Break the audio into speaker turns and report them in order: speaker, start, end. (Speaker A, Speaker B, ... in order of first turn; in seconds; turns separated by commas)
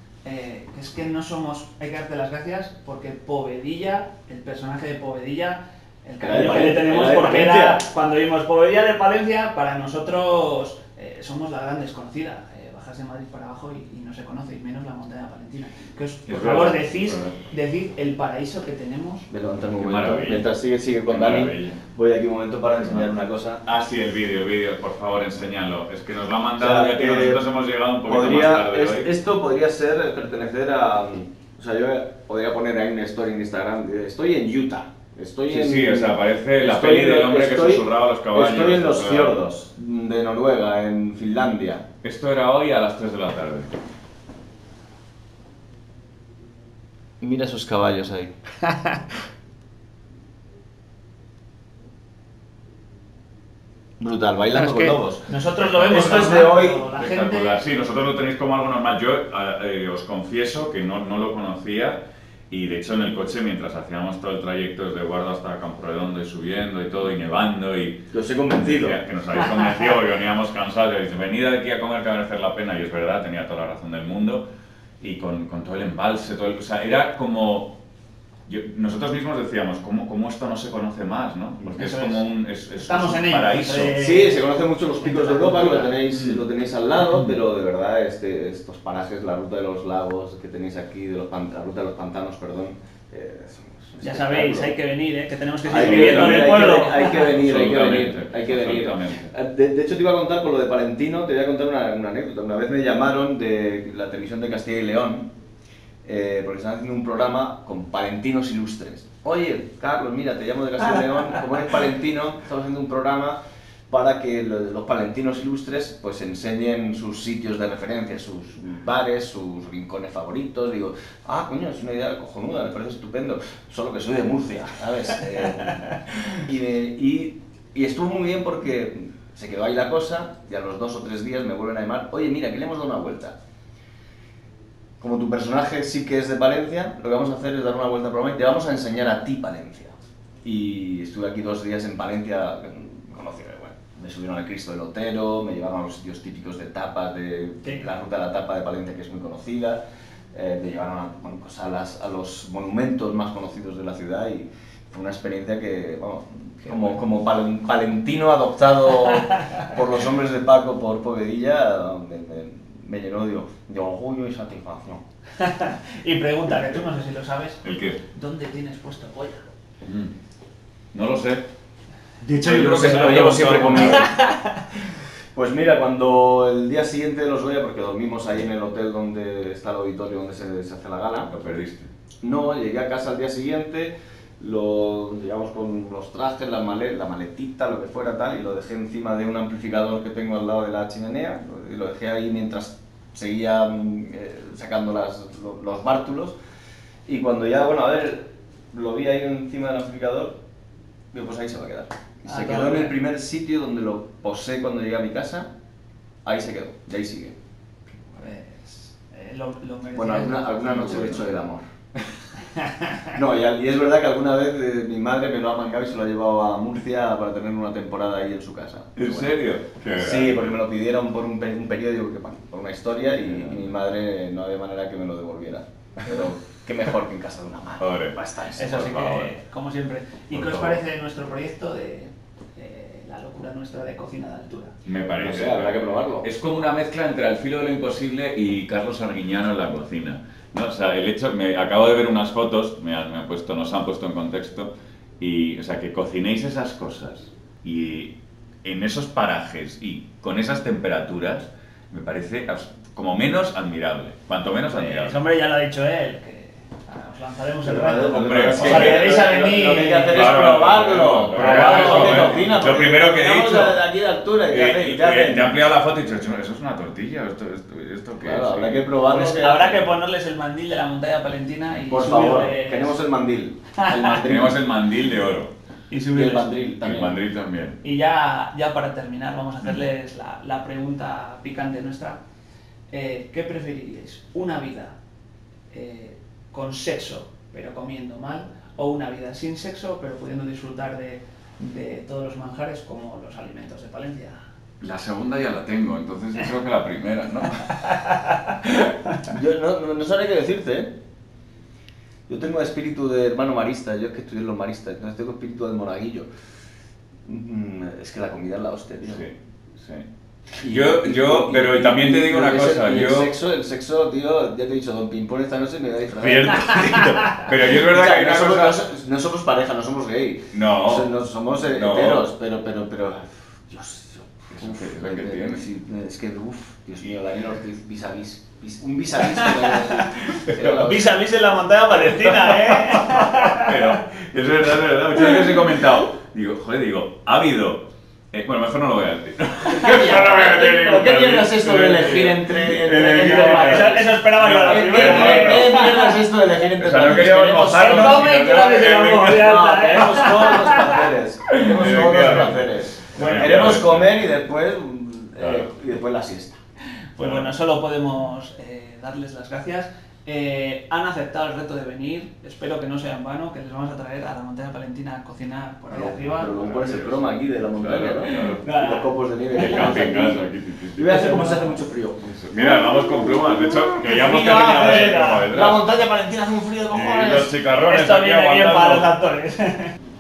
Speaker A: 0.2-19.3, Speaker B: 6.2-7.8, Speaker C: 16.3-17.4, Speaker B: 19.3-23.6, Speaker C: 19.7-20.5, Speaker C: 21.1-21.8, Speaker C: 23.6-29.1, Speaker B: 26.6-27.4, Speaker B: 28.1-41.8, Speaker C: 35.5-39.4, Speaker C: 42.0-43.7, Speaker B: 47.2-48.4, Speaker B: 54.0-55.3, Speaker A: 54.5-57.6, Speaker C: 55.6-74.5, Speaker B: 55.9-56.8, Speaker B: 68.1-69.0, Speaker C: 75.0-77.8, Speaker C: 78.5-84.0, Speaker A: 81.6-82.2, Speaker A: 82.8-86.0, Speaker B: 84.0-94.7, Speaker C: 86.1-86.4, Speaker C: 87.1-87.4, Speaker A: 94.0-97.3, Speaker B: 95.7-105.3, Speaker C: 95.7-99.3, Speaker B: 106.0-113.4, Speaker B: 113.9-133.3, Speaker B: 135.0-149.8, Speaker B: 150.3-165.0, Speaker C: 156.7-156.9, Speaker A: 165.4-167.6, Speaker C: 167.6-168.0, Speaker A: 168.1-169.5, Speaker C: 169.9-170.1, Speaker C: 170.9-171.4, Speaker B: 172.2-174.1, Speaker C: 172.3-174.1, Speaker A: 173.7-174.4, Speaker B: 175.3-181.3, Speaker C: 181.3-181.9, Speaker B: 182.2-196.4, Speaker B: 197.1-200.4, Speaker B: 201.1-205.5, Speaker A: 202.3-203.0, Speaker B: 206.2-207.3, Speaker A: 208.1-211.2, Speaker B: 209.9-211.6, Speaker B: 213.1-219.3, Speaker C: 219.0-220.6, Speaker B: 220.0-228.5, Speaker C: 223.3-223.6, Speaker C: 227.8-229.3, Speaker A: 228.6-234.7, Speaker C: 230.3-230.8, Speaker C: 234.8-255.2, Speaker B: 235.2-236.3, Speaker A: 254.7-260.4, Speaker B: 257.6-265.6, Speaker C: 258.1-259.2, Speaker C: 260.1-263.8, Speaker A: 261.3-262.5, Speaker C: 264.5-268.9, Speaker B: 268.2-269.8, Speaker A: 269.1-273.0, Speaker B: 271.9-274.6, Speaker A: 273.8-274.2, Speaker C: 274.2-275.5, Speaker A: 275.9-276.5, Speaker B: 276.1-277.2, Speaker C: 276.8-277.8, Speaker A: 277.8-282.2, Speaker A: 282.9-284.9, Speaker A: 285.7-294.4, Speaker C: 294.8-297.8, Speaker B: 299.2-300.9, Speaker B: 302.3-306.3, Speaker B: 307.2-309.2, Speaker C: 309.1-310.1, Speaker C: 310.6-313.3, Speaker B: 310.6-316.9, Speaker C: 316.1-318.8, Speaker B: 317.7-331.2, Speaker C: 320.5-321.1, Speaker C: 321.7-322.2, Speaker C: 324.6-325.6, Speaker A: 329.3-330.1, Speaker A: 330.6-334.0, Speaker C: 333.0-345.9, Speaker B: 339.7-356.6, Speaker A: 343.0-346.2, Speaker C: 346.8-349.4, Speaker A: 347.6-351.1, Speaker C: 351.6-354.1, Speaker C: 355.4-355.7, Speaker A: 357.1-366.6, Speaker C: 357.2-357.6, Speaker B: 365.9-372.4, Speaker C: 366.5-368.7, Speaker A: 368.3-370.1, Speaker C: 369.5-371.6, Speaker A: 371.1-371.6, Speaker C: 372.3-375.9, Speaker B: 374.1-377.5, Speaker A: 374.1-375.5, Speaker C: 376.9-379.1, Speaker A: 377.7-379.9